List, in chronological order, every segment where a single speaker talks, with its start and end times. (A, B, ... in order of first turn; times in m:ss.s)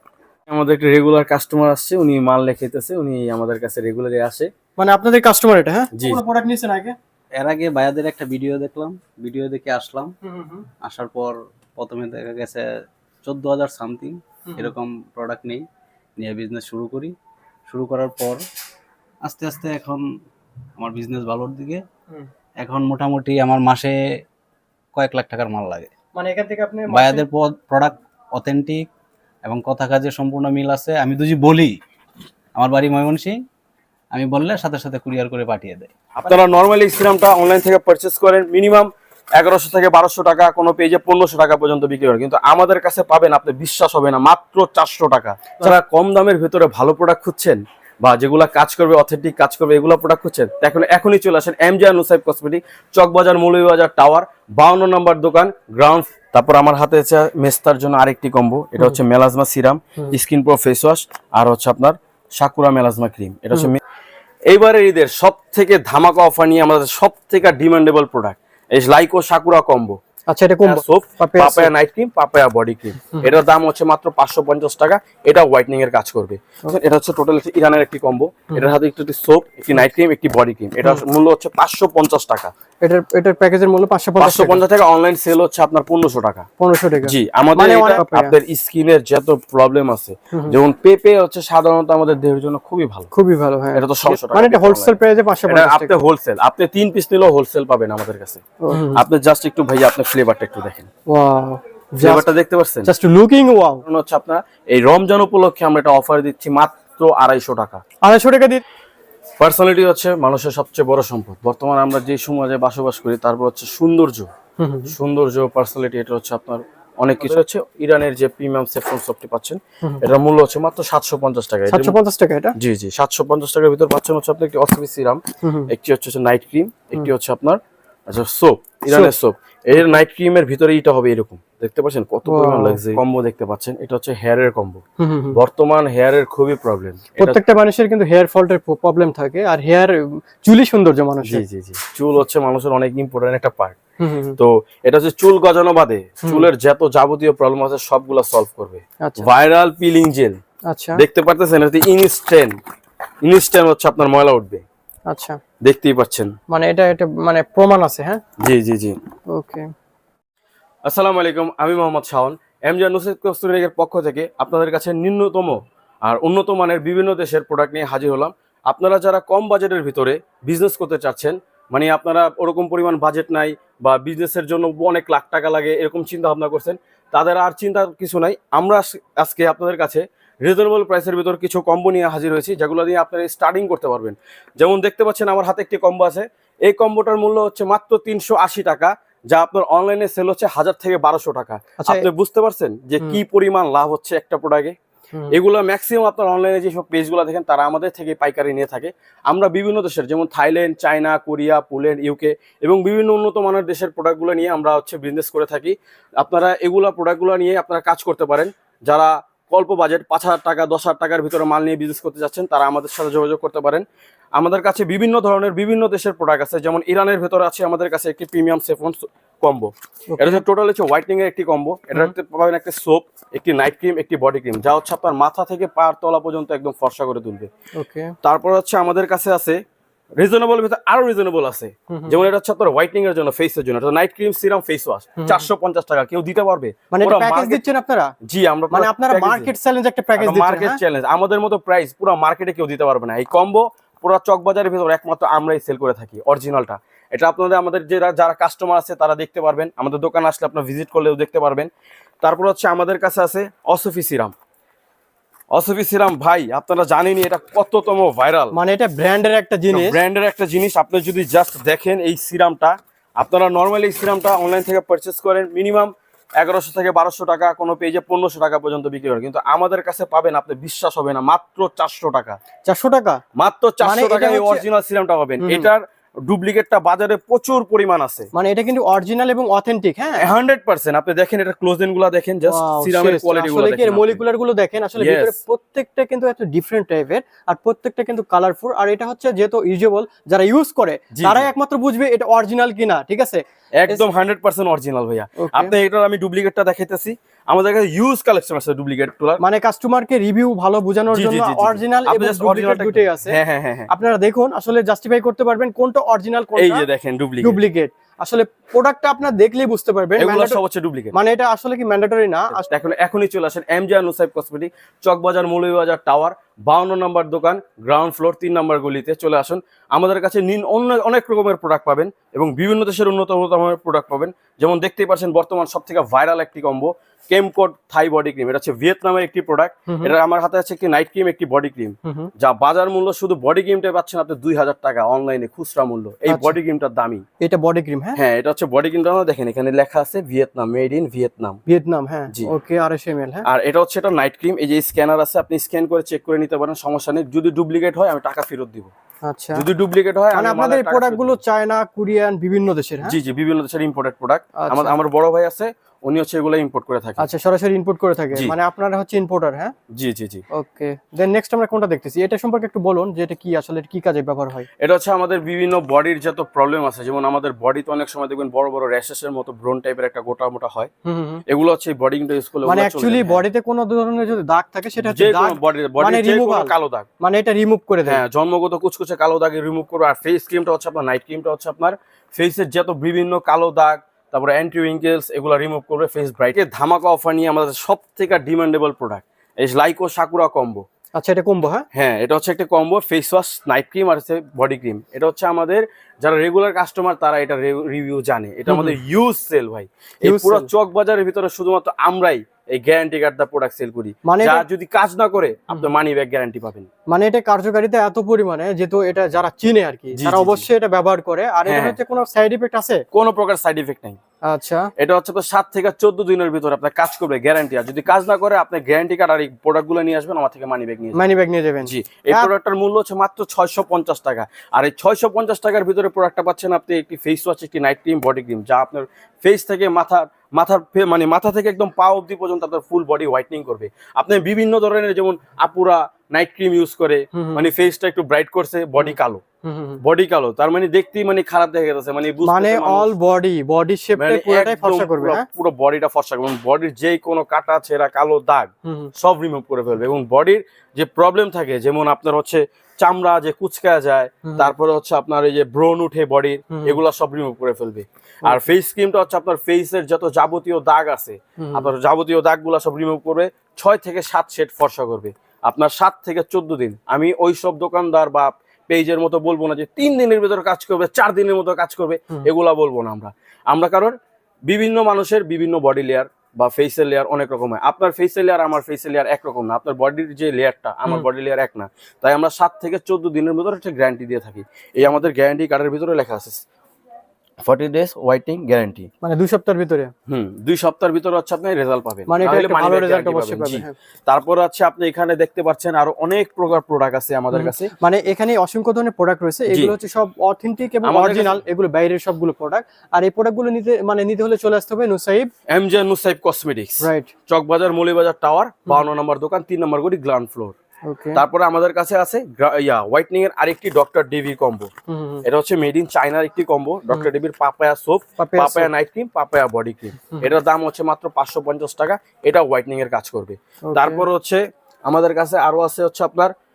0:00.5-0:04.5 A
0:04.8-0:07.0 B
0:05.9-0:06.2 A
0:07.4-0:10.2 C
0:10.2-0:10.7 B
0:10.8-0:12.6 C
0:13.2-0:15.6 C
0:14.5-0:14.7 B
0:16.2-0:17.2 C
0:17.7-0:18.4 C
0:19.2-0:20.1 C
0:20.8-0:21.8 C
0:22.6-0:24.0 C
0:25.0-0:25.9 C
0:26.2-0:27.2 B
0:26.9-0:28.9 C
0:29.4-0:31.8 C
0:32.6-0:33.4 C
0:34.1-0:35.9 C
0:36.2-1:03.8 A
1:04.5-1:10.0 A
1:10.3-1:11.7 B
1:10.6-1:22.5 A
1:22.8-1:24.6 B
1:24.2-1:26.5 A
1:26.6-1:28.4 B
1:27.0-1:33.1 A
1:30.3-1:30.6 B
1:33.1-1:35.9 B
1:33.7-1:40.9 A
1:38.6-1:39.0 B
1:41.1-1:42.2 B
1:42.0-1:42.9 A
1:42.8-1:43.8 B
1:43.9-1:47.8 A
1:48.0-1:48.6 B
1:49.4-1:54.3 A
1:54.6-1:54.9 B
1:54.9-2:02.0 A
2:01.7-2:02.6 B
2:02.6-2:17.4 A
2:05.4-2:05.7 B
2:12.3-2:13.0 B
2:15.0-2:15.4 B
2:17.2-2:21.4 B
2:21.2-2:23.8 A
2:24.0-2:24.4 B
2:24.4-2:30.4 A
2:29.0-2:29.3 B
2:30.7-2:31.0 B
2:31.0-2:32.6 A
2:33.2-2:34.6 A
2:35.1-2:35.4 B
2:35.6-2:36.4 A
2:36.5-2:38.2 B
2:38.4-2:39.0 A
2:39.3-2:39.7 B
2:40.8-3:14.8 A
3:11.8-3:12.1 B
3:15.3-3:47.5 A
3:40.1-3:40.4 B
3:47.8-3:48.2 B
3:48.2-3:49.6 A
3:50.2-3:57.6 A
3:51.9-3:52.2 B
3:55.2-3:55.5 B
3:56.9-3:58.2 B
3:58.2-3:59.5 A
3:58.7-4:00.8 B
4:00.2-4:11.7 A
4:12.2-4:14.4 A
4:15.5-4:18.6 A
4:18.5-4:20.0 B
4:19.7-4:32.4 A
4:32.6-4:33.2 B
4:33.4-4:38.3 A
4:33.8-4:34.6 B
4:35.4-4:35.7 B
4:38.3-4:40.3 B
4:40.2-4:44.2 A
4:42.5-4:54.0 B
4:45.0-4:45.4 A
4:51.1-4:51.5 A
4:53.8-4:59.4 A
4:55.4-4:55.7 B
4:59.4-5:03.4 B
5:01.1-5:03.9 A
5:03.9-5:06.8 B
5:06.6-5:07.6 A
5:07.4-5:10.6 B
5:10.2-5:11.2 A
5:11.1-5:12.7 B
5:12.5-5:37.2 A
5:29.9-5:30.1 B
5:32.0-5:32.3 B
5:36.3-5:36.6 B
5:37.4-5:38.2 B
5:38.2-5:41.6 A
5:41.7-5:43.5 B
5:43.4-5:48.9 A
5:49.2-5:49.7 B
5:49.5-5:51.4 A
5:50.3-5:53.2 B
5:53.0-5:57.3 A
5:54.6-5:55.0 B
5:57.2-5:59.8 B
5:59.9-6:00.4 A
6:00.5-6:04.7 B
6:04.8-6:10.9 A
6:11.1-6:11.4 B
6:11.5-6:13.4 A
6:12.7-6:18.2 B
6:15.0-6:17.1 A
6:18.1-6:30.8 A
6:31.2-6:31.9 B
6:31.9-6:46.9 A
6:38.7-6:39.0 B
6:40.2-6:40.7 B
6:44.2-6:44.6 B
6:47.1-6:53.0 B
6:50.1-6:50.7 A
6:51.6-6:52.0 A
6:53.1-6:54.2 A
6:54.5-6:54.9 B
6:55.0-7:01.3 A
7:01.2-7:02.5 B
7:01.8-7:19.4 A
7:17.3-7:17.7 B
7:19.0-7:20.0 B
7:20.0-7:23.1 A
7:22.4-7:25.5 B
7:24.2-8:06.6 A
7:28.8-7:29.1 B
7:34.4-7:34.7 B
7:36.7-7:37.0 B
7:41.6-7:41.9 B
8:07.6-8:09.1 A
8:09.2-8:10.1 B
8:10.3-8:17.9 A
8:12.3-8:13.9 B
8:17.5-8:25.5 B
8:21.0-8:21.6 A
8:25.7-8:30.8 A
8:27.0-8:27.3 B
8:31.1-8:31.4 B
8:31.4-8:34.9 A
8:35.1-8:35.4 B
8:35.4-8:46.5 A
8:38.4-8:38.9 B
8:43.9-8:44.2 B